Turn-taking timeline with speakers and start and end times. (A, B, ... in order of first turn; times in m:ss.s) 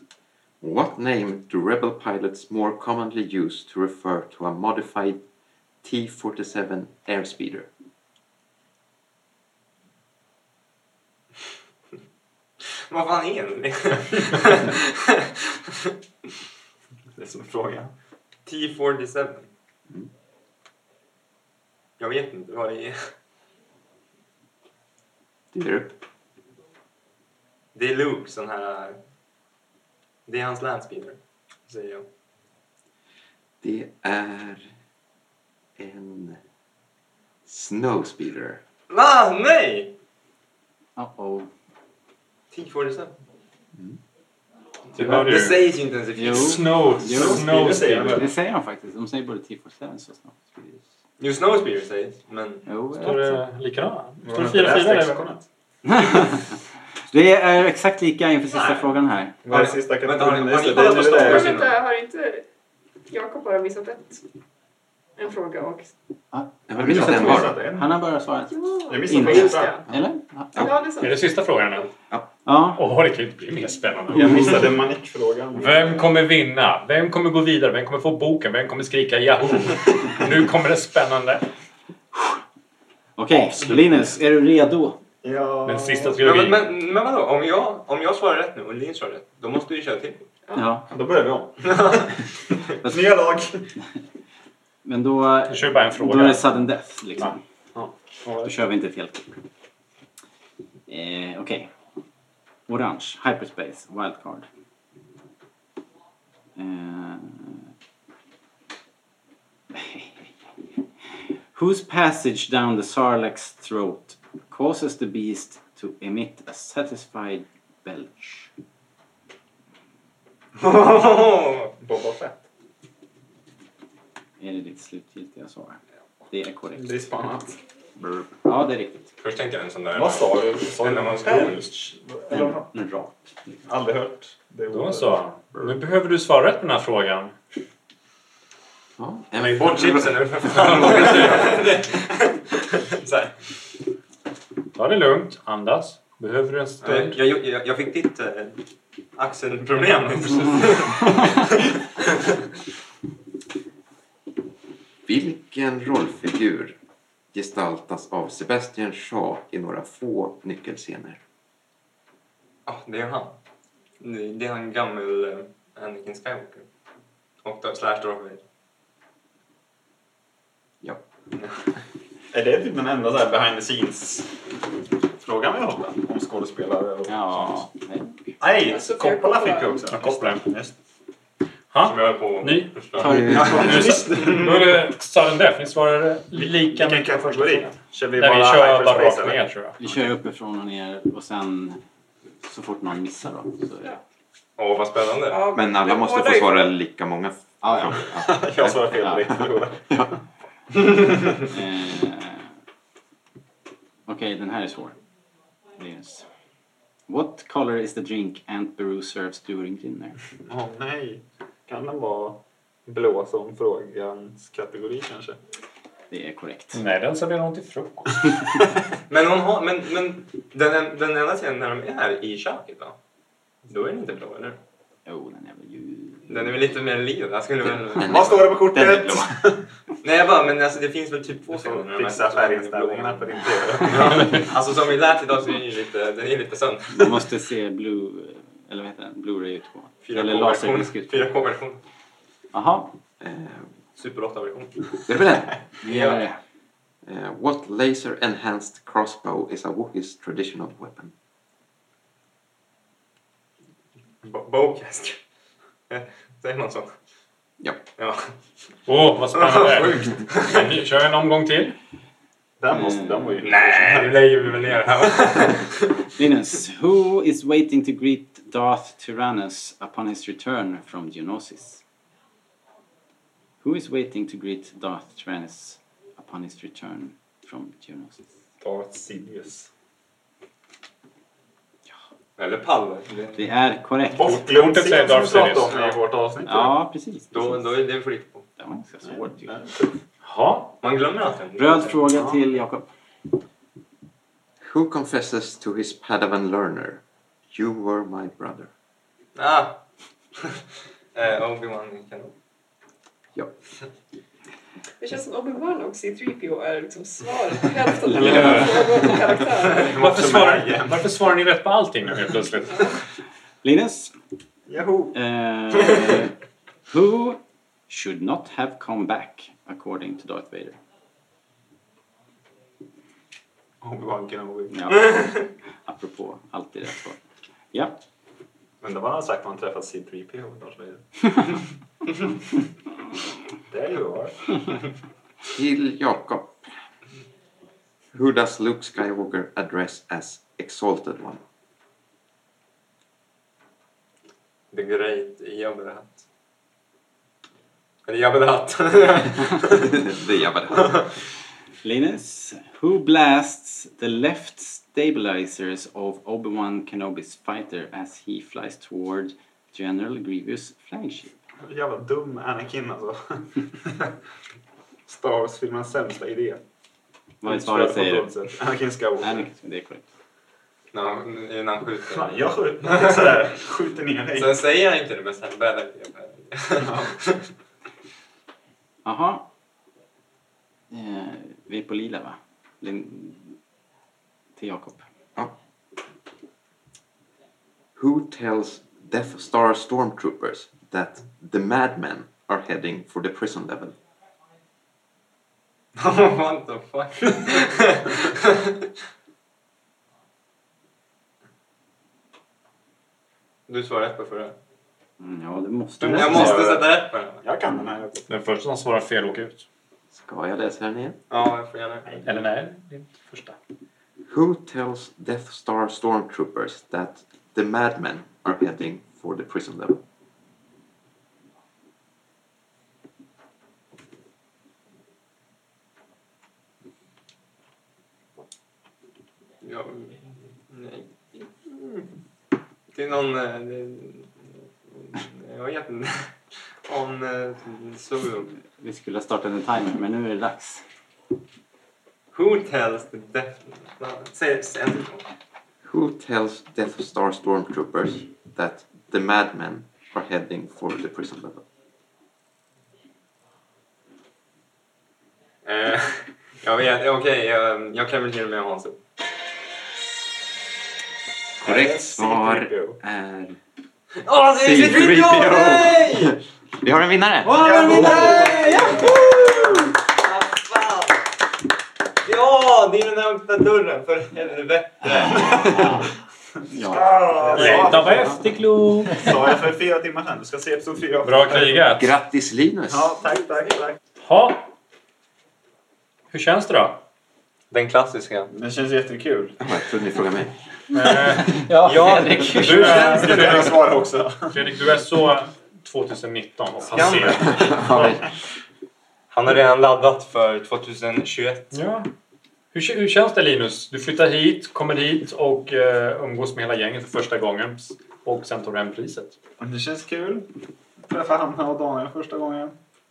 0:00.6-0:05.2 A
0:05.8-0:07.7 A
0:12.9-0:15.9 B
0:17.1-0:17.9 C
0:18.4-0:19.5 B
0:22.0-0:23.1 B
0:25.5-0:26.0 A
0:27.7-0:29.0 B
0:30.3-0:32.1 B
0:33.6-0:34.7 A
0:35.8-0:36.4 A
0:37.4-0:38.6 A
0:38.9-0:39.9 B
0:41.0-0:41.5 D
0:42.5-0:43.2 B
0:44.9-0:46.7 B
0:44.9-0:45.7 E
0:46.1-0:50.8 D
0:46.3-0:48.3 E
0:47.1-0:48.3 C
0:51.2-0:52.7 B
0:52.7-0:53.4 D
0:52.9-0:55.2 E
0:54.2-0:55.4 C
0:55.8-0:56.6 D
0:57.1-0:59.4 D
0:58.5-0:58.8 B
0:59.4-1:01.6 C
0:59.5-1:01.8 B
1:01.1-1:02.4 F
1:03.1-1:04.2 F
1:05.2-1:05.9 F
1:06.3-1:10.7 D
1:06.7-1:07.7 A
1:06.8-1:07.9 C
1:08.5-1:09.9 F
1:08.9-1:09.8 C
1:10.5-1:10.9 A
1:10.6-1:11.4 F
1:11.0-1:11.9 E
1:12.4-1:12.8 D
1:12.7-1:14.7 E
1:14.1-1:16.0 C
1:14.1-1:14.6 D
1:15.5-1:21.4 E
1:23.2-1:25.0 D
1:25.2-1:26.3 C
1:25.6-1:26.7 E
1:26.2-1:30.3 B
1:30.5-1:30.9 D
1:30.8-1:32.1 C
1:31.7-1:32.1 B
1:32.7-1:33.7 C
1:34.8-1:37.4 D
1:35.5-1:36.5 E
1:37.2-1:38.5 C
1:38.4-1:39.3 D
1:40.9-1:41.7 D
1:42.7-1:44.4 D
1:46.6-1:47.6 D
1:49.7-1:50.3 D
1:51.5-1:58.5 D
2:00.6-2:01.7 B
2:01.8-2:02.4 C
2:04.4-2:05.8 D
2:06.3-2:07.1 D
2:06.7-2:07.6 C
2:08.0-2:09.1 D
2:09.2-2:11.7 B
2:09.9-2:12.7 C
2:12.3-2:13.1 D
2:13.6-2:15.6 C
2:14.7-2:17.3 E
2:19.0-2:21.1 A
2:19.4-2:21.4 E
2:19.6-2:23.4 B
2:24.7-2:27.2 E
2:26.8-2:28.6 B
2:29.2-2:32.3 B
2:35.0-2:36.7 A
2:37.3-2:41.2 A
2:42.6-2:43.4 B
2:44.0-2:46.7 B
2:47.4-2:48.4 B
2:52.3-2:54.3 C
2:55.2-2:57.7 C
2:57.1-2:58.4 D
2:58.4-3:00.7 C
2:58.6-2:59.8 F
2:59.8-3:00.4 E
3:01.7-3:09.8 E
3:01.8-3:03.2 B
3:03.0-3:03.9 A
3:03.0-3:03.8 D
3:03.3-3:04.7 C
3:06.3-3:09.4 C
3:09.8-3:11.8 D
3:12.4-3:14.0 D
3:14.6-3:15.5 B
3:15.3-3:16.7 F
3:15.5-3:18.3 A
3:17.6-3:19.5 D
3:18.1-3:20.1 C
3:21.3-3:22.5 D
3:24.1-3:25.0 D
3:25.8-3:26.3 D
3:27.1-3:30.2 D
3:30.4-3:35.4 C
3:36.1-3:36.8 D
3:36.7-3:38.7 E
3:39.1-3:43.0 B
3:43.7-3:44.6 B
3:45.0-3:46.6 D
3:46.3-3:48.3 B
3:47.9-3:49.5 A
3:48.0-3:49.6 C
3:50.0-3:57.1 B
3:51.5-3:54.4 C
3:56.9-4:01.3 D
4:00.0-4:01.8 B
4:02.5-4:03.0 D
4:03.2-4:03.7 A
4:04.0-4:05.0 B
4:05.0-4:05.6 A
4:05.8-4:06.2 B
4:05.8-4:06.4 D
4:07.0-4:11.1 A
4:14.2-4:15.2 B
4:15.9-4:16.9 B
4:17.6-4:17.8 A
4:18.0-4:18.3 B
4:18.9-4:21.7 E
4:19.3-4:20.7 B
4:22.6-4:24.2 C
4:22.7-4:23.4 D
4:23.4-4:26.0 B
4:26.1-4:31.8 D
4:33.6-4:38.2 D
4:38.6-4:39.7 C
4:42.4-4:43.4 B
4:43.3-4:44.4 D
4:44.1-4:46.7 C
4:44.2-4:46.0 E
4:46.4-4:47.6 D
4:47.3-4:48.4 B
4:48.6-4:49.5 D
4:49.0-4:50.0 C
4:50.2-4:50.7 E
4:50.8-4:52.1 B
4:51.6-4:52.9 D
4:54.6-4:58.7 A
4:59.3-4:59.8 B
5:01.1-5:02.3 B
5:05.0-5:09.9 F
5:08.0-5:09.0 D
5:08.1-5:09.1 E
5:09.7-5:11.2 C
5:09.8-5:13.0 E
5:13.6-5:14.1 D
5:14.7-5:15.2 C
5:15.1-5:16.3 D
5:16.9-5:20.8 D
5:23.8-5:25.0 C
5:24.7-5:27.2 D
5:27.7-5:28.0 D
5:28.8-5:31.3 C
5:33.7-5:34.6 C
5:35.5-5:36.7 A
5:38.1-5:41.4 A
5:44.7-5:46.2 B
5:48.0-5:50.1 B
5:49.6-5:51.1 A
5:50.7-5:51.0 B
5:51.8-6:01.3 D
6:01.6-6:04.1 C
6:05.1-6:06.6 C
6:07.4-6:08.3 D
6:07.4-6:09.5 C
6:09.2-6:10.0 D
6:10.9-6:13.1 B
6:12.1-6:14.6 C
6:14.4-6:17.4 B
6:16.8-6:17.2 C
6:19.0-6:19.4 D
6:20.9-6:23.6 D
6:24.6-6:25.0 D
6:28.0-6:34.0 A
6:36.0-6:38.8 B
6:43.7-6:44.6 B
6:45.2-6:46.8 D
6:46.0-6:46.8 C
6:46.1-6:47.4 B
6:47.4-6:48.3 C
6:48.3-6:49.6 E
6:50.1-6:51.2 A
6:51.3-6:52.2 B
6:52.2-6:53.6 E
6:54.2-7:00.0 A
7:09.6-7:12.1 B
7:12.9-7:18.5 B
7:18.8-7:20.8 D
7:22.3-7:25.3 B
7:25.8-7:31.6 A
7:35.6-7:39.0 B
7:41.6-7:43.0 C
7:41.6-7:43.6 A
7:44.2-7:46.4 B
7:44.4-7:47.8 A
7:47.4-7:49.6 D
7:47.5-7:49.0 C
7:47.7-7:51.3 B
7:52.2-7:55.9 B
7:55.2-7:56.1 D
7:55.4-7:55.8 A
7:56.7-7:57.9 D
7:56.8-7:58.4 C
7:57.5-7:59.3 E
7:59.1-8:01.8 C
8:01.2-8:02.1 E
8:02.0-8:03.1 A
8:02.9-8:04.0 C
8:04.2-8:04.7 E
8:06.3-8:07.0 E
8:07.7-8:08.5 B
8:08.5-8:09.6 C
8:09.6-8:10.5 A
8:10.9-8:11.6 E
8:11.4-8:13.2 D
8:11.8-8:13.7 B
8:12.5-8:13.9 E
8:13.1-8:14.6 C
8:14.5-8:18.1 E
8:17.1-8:18.2 A
8:19.3-8:21.7 B
8:21.7-8:22.1 E
8:22.7-8:29.4 E
8:29.6-8:30.5 C
8:31.0-8:32.8 C